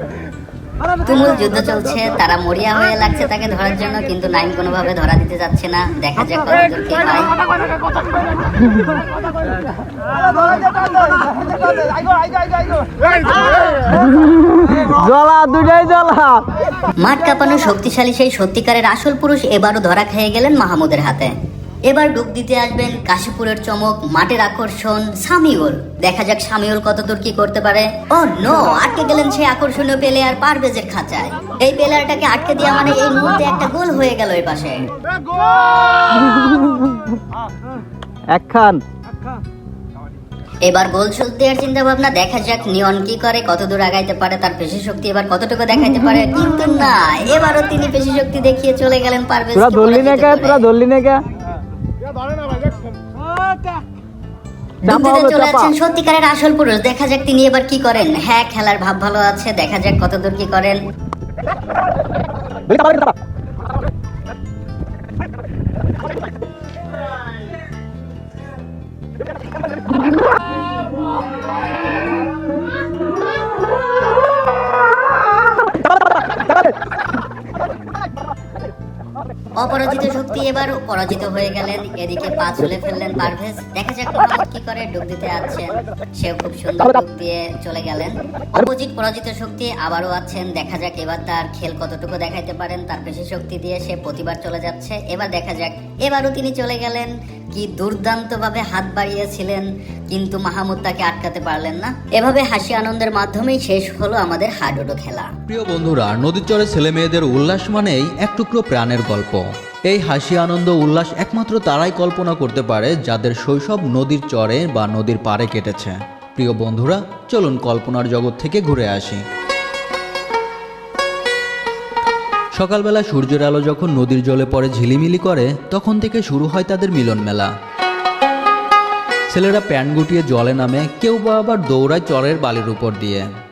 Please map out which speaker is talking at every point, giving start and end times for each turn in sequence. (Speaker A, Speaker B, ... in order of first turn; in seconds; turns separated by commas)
Speaker A: 1.0-7.3, Speaker B: 14.4-16.5, Speaker A: 17.0-21.3, Speaker A: 21.9-34.8, Speaker B: 36.2-36.9, Speaker B: 38.3-38.8, Speaker A: 40.6-50.7, Speaker B: 49.5-51.2, Speaker A: 54.8-60.8, Speaker B: 54.9-55.7, Speaker A: 79.6-105.3, Speaker C: 105.5-119.2, Speaker C: 122.5-127.5, Speaker C: 129.3-133.3